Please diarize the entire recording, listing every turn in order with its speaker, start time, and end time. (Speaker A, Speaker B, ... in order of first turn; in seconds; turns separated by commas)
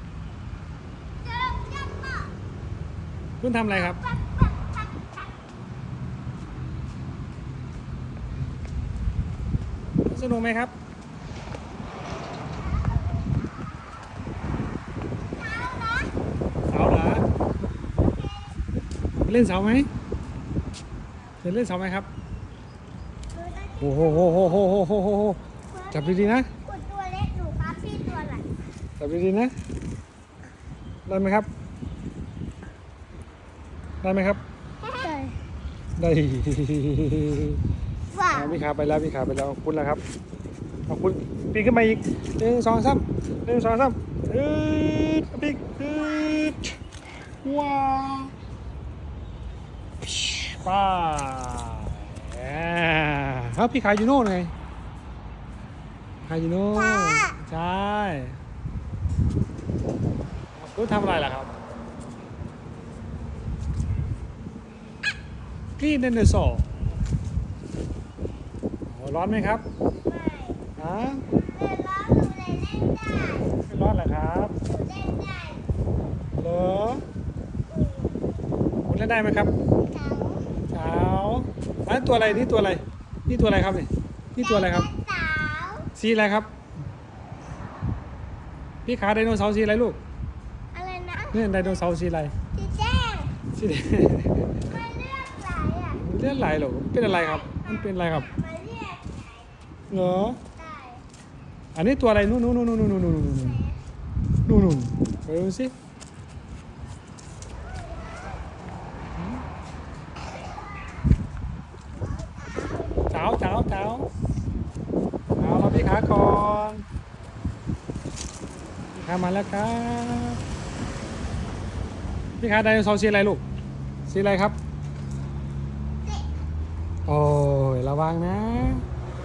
Speaker A: 1.2-2.3, Speaker B: 3.4-4.0, Speaker A: 3.7-5.4, Speaker B: 10.1-10.7, Speaker A: 12.7-13.1, Speaker A: 15.3-16.1, Speaker B: 16.7-17.2, Speaker A: 18.0-18.6, Speaker B: 19.2-19.9, Speaker B: 21.4-22.1, Speaker A: 23.3-24.6, Speaker B: 23.8-25.4, Speaker A: 25.7-28.5, Speaker B: 25.9-26.5, Speaker B: 29.0-29.5, Speaker B: 31.1-31.5, Speaker B: 34.0-34.4, Speaker A: 34.8-35.4, Speaker B: 36.0-37.6, Speaker A: 38.1-38.6, Speaker B: 38.3-40.0, Speaker B: 40.9-46.7, Speaker B: 47.4-48.3, Speaker B: 50.4-54.5, Speaker B: 56.2-58.4, Speaker A: 57.0-57.3, Speaker B: 60.6-61.5, Speaker B: 65.8-66.7, Speaker B: 68.9-69.6, Speaker A: 70.0-70.7, Speaker B: 70.8-71.2, Speaker A: 71.5-73.6, Speaker B: 73.6-74.5, Speaker A: 74.6-75.6, Speaker B: 76.3-77.0, Speaker A: 77.7-78.3, Speaker B: 78.9-79.5, Speaker A: 79.8-80.5, Speaker B: 80.7-84.9, Speaker A: 84.4-85.9, Speaker B: 86.0-86.5, Speaker B: 88.8-90.0, Speaker A: 90.7-91.8, Speaker B: 91.3-92.3, Speaker A: 92.5-93.4, Speaker B: 93.5-94.7, Speaker A: 94.7-96.0, Speaker B: 96.0-98.3, Speaker A: 97.1-99.5, Speaker B: 99.9-100.4, Speaker A: 100.6-101.0, Speaker B: 101.7-103.6, Speaker A: 103.4-103.8, Speaker B: 104.5-105.7, Speaker B: 109.2-109.4, Speaker A: 112.0-113.0, Speaker B: 113.1-114.1, Speaker B: 115.4-116.8, Speaker B: 118.9-120.4, Speaker B: 122.4-123.4, Speaker B: 124.1-124.5, Speaker B: 127.1-128.8